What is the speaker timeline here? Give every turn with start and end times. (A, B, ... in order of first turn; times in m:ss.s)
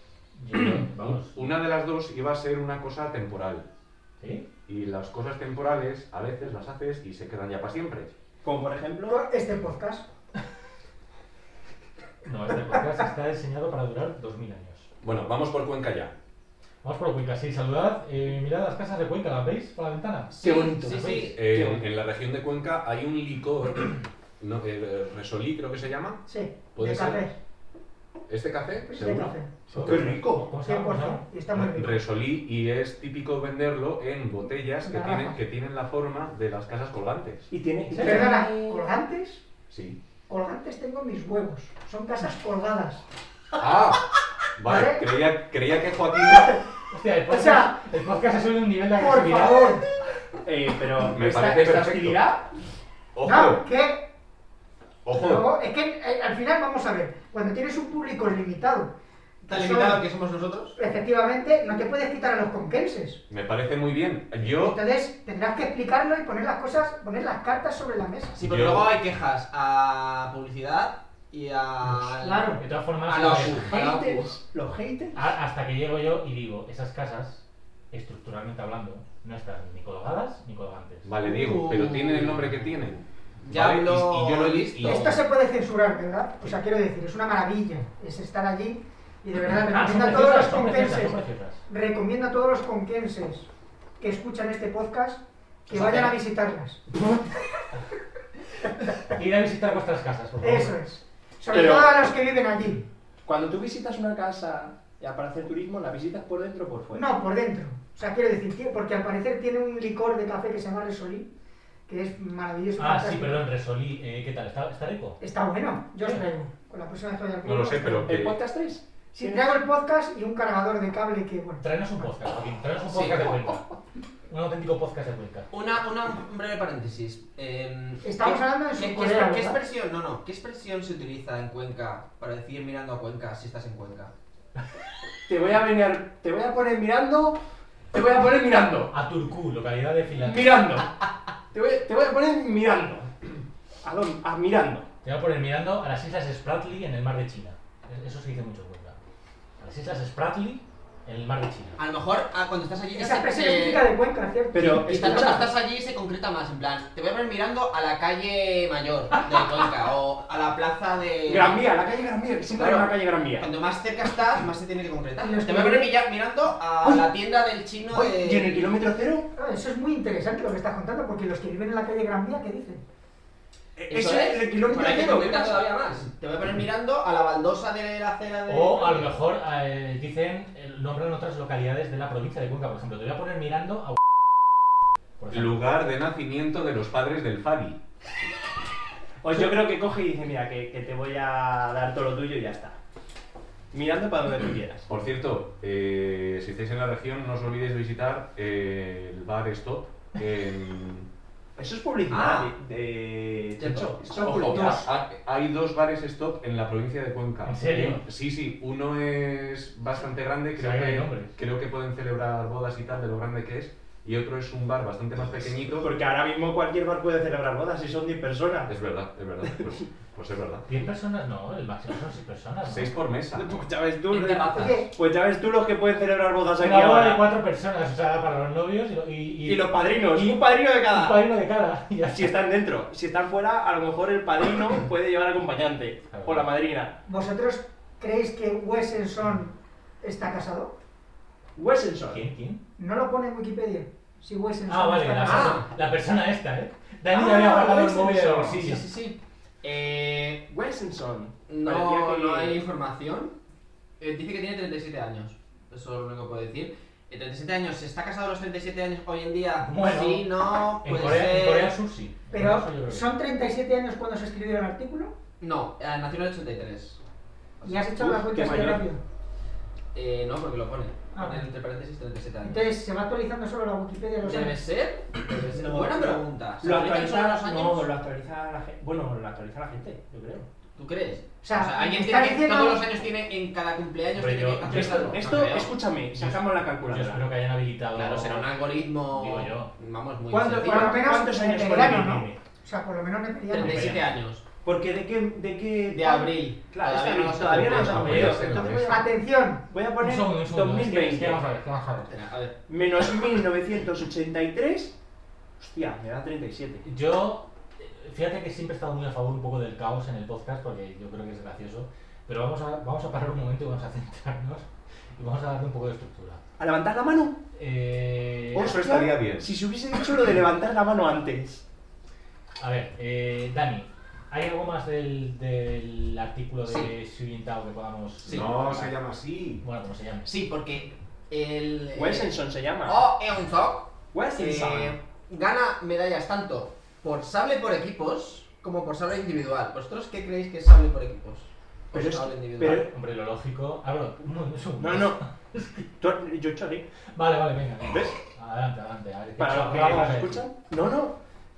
0:00.4-0:01.4 A
0:00.5-0:03.7 B
0:04.2-0:04.5 A
0:04.7-0:08.1 B
0:08.4-0:09.2 C
0:09.1-0:10.1 D
0:12.2-0:14.9 A
0:15.0-0:16.1 B
0:16.8-0:21.4 A
0:20.3-0:21.4 E
0:20.4-0:21.8 C
0:21.4-0:26.2 B
0:26.3-0:27.4 D
0:26.7-0:27.3 B
0:28.3-0:30.2 B
0:28.9-0:29.5 D
0:29.7-0:31.2 A
0:29.7-0:30.5 C
0:30.6-0:32.0 D
0:31.5-0:37.5 B
0:34.8-0:35.4 D
0:37.5-0:38.8 C
0:37.9-0:38.4 A
0:38.0-0:39.4 D
0:39.7-0:40.0 B
0:40.3-0:43.0 D
0:43.6-0:44.0 B
0:44.6-0:46.6 B
0:44.6-0:45.0 D
0:46.9-0:49.8 A
0:47.3-0:47.7 D
0:49.0-0:49.8 D
0:50.4-0:52.4 C
0:51.1-0:52.2 B
0:53.2-0:53.6 B
0:53.2-0:54.0 D
0:55.0-0:55.5 B
0:55.1-0:58.9 D
0:59.4-1:00.8 E
0:59.5-1:00.0 D
1:00.8-1:03.2 D
1:03.3-1:04.8 B
1:04.4-1:08.4 D
1:08.4-1:14.3 E
1:08.4-1:09.0 B
1:12.2-1:12.6 D
1:12.6-1:13.8 A
1:13.2-1:15.3 C
1:15.1-1:21.1 A
1:21.0-1:25.1 B
1:21.2-1:22.5 E
1:23.4-1:25.2 E
1:24.8-1:33.5 D
1:29.5-1:31.6 A
1:34.0-1:36.8 D
1:35.7-1:36.2 A
1:39.0-1:40.8 A
1:40.4-1:42.8 D
1:41.5-1:42.0 C
1:43.3-1:47.0 C
1:46.9-1:51.3 D
1:51.9-1:53.4 D
1:52.8-1:55.2 A
1:55.2-1:58.2 D
1:57.4-1:58.4 B
1:58.1-1:59.6 C
1:59.2-2:02.1 D
2:01.6-2:03.6 A
2:02.9-2:03.4 E
2:04.3-2:05.5 A
2:05.5-2:14.1 E
2:08.0-2:09.6 D
2:15.3-2:17.4 C
2:17.9-2:18.9 C
2:18.9-2:20.6 A
2:20.2-2:20.9 C
2:21.5-2:23.1 C
2:23.8-2:24.9 C
2:25.0-2:29.0 A
2:29.6-2:31.8 A
2:31.8-2:33.9 E
2:33.0-2:35.5 D
2:34.5-2:35.5 C
2:34.6-2:41.6 E
2:41.3-2:43.5 C
2:42.6-2:48.8 E
2:45.2-2:45.9 D
2:47.9-2:49.3 C
2:49.4-2:52.8 D
2:53.8-2:55.7 C
2:53.9-2:59.2 E
2:58.5-3:04.0 A
3:05.2-3:05.6 A
3:05.3-3:07.8 B
3:09.2-3:12.8 C
3:13.7-3:14.9 C
3:14.9-3:21.1 B
3:21.6-3:24.8 C
3:22.1-3:22.5 E
3:23.6-3:23.9 E
3:24.2-3:35.9 B
3:24.5-3:24.8 D
3:27.4-3:28.0 A
3:30.6-3:31.3 A
3:35.8-3:38.7 C
3:38.7-3:40.7 B
3:40.7-3:42.9 A
3:42.7-3:43.5 B
3:43.3-3:47.2 C
3:44.1-3:44.8 E
3:44.5-3:44.9 D
3:46.6-3:52.4 A
3:49.4-3:51.2 C
3:52.1-3:57.0 C
3:56.1-3:56.5 A
3:57.1-4:00.7 D
4:01.6-4:02.2 C
4:02.1-4:02.6 A
4:02.8-4:05.6 D
4:04.7-4:08.9 A
4:05.2-4:05.7 E
4:07.1-4:08.8 C
4:08.6-4:10.5 E
4:10.5-4:12.6 C
4:11.5-4:13.3 E
4:14.0-4:21.8 E
4:19.6-4:20.3 A
4:20.8-4:23.1 A
4:22.3-4:25.2 D
4:25.4-4:27.0 E
4:27.6-4:28.8 C
4:27.6-4:29.0 D
4:29.9-4:32.7 E
4:31.2-4:31.5 D
4:32.4-4:34.6 D
4:34.2-4:37.9 E
4:35.4-4:40.5 C
4:40.8-4:45.7 E
4:41.4-4:42.8 D
4:44.1-4:45.4 A
4:44.7-4:47.3 C
4:46.2-4:48.5 A
4:48.0-4:51.0 E
4:49.1-4:49.7 A
4:50.3-4:54.0 D
4:50.3-4:52.4 C
4:53.5-4:54.1 A
4:53.5-4:54.4 E
4:54.6-4:59.1 C
4:55.9-4:58.9 E
4:57.6-4:59.0 B
4:57.7-4:58.5 A
4:58.9-4:59.7 D
4:59.7-5:01.4 C
5:00.0-5:02.1 A
5:02.1-5:02.6 E
5:02.7-5:05.0 C
5:05.6-5:06.8 C
5:06.8-5:16.4 A
5:16.6-5:17.4 C
5:17.6-5:18.8 A
5:18.5-5:21.6 C
5:18.6-5:19.5 B
5:22.6-5:29.0 A
5:28.2-5:29.6 B
5:29.6-5:30.3 A
5:30.2-5:42.8 E
5:32.0-5:33.0 C
5:34.1-5:35.0 C
5:41.9-5:42.8 C
5:42.6-5:45.9 A
5:44.8-5:45.2 C
5:46.0-5:46.8 C
5:47.2-5:50.5 A
5:49.4-5:51.2 C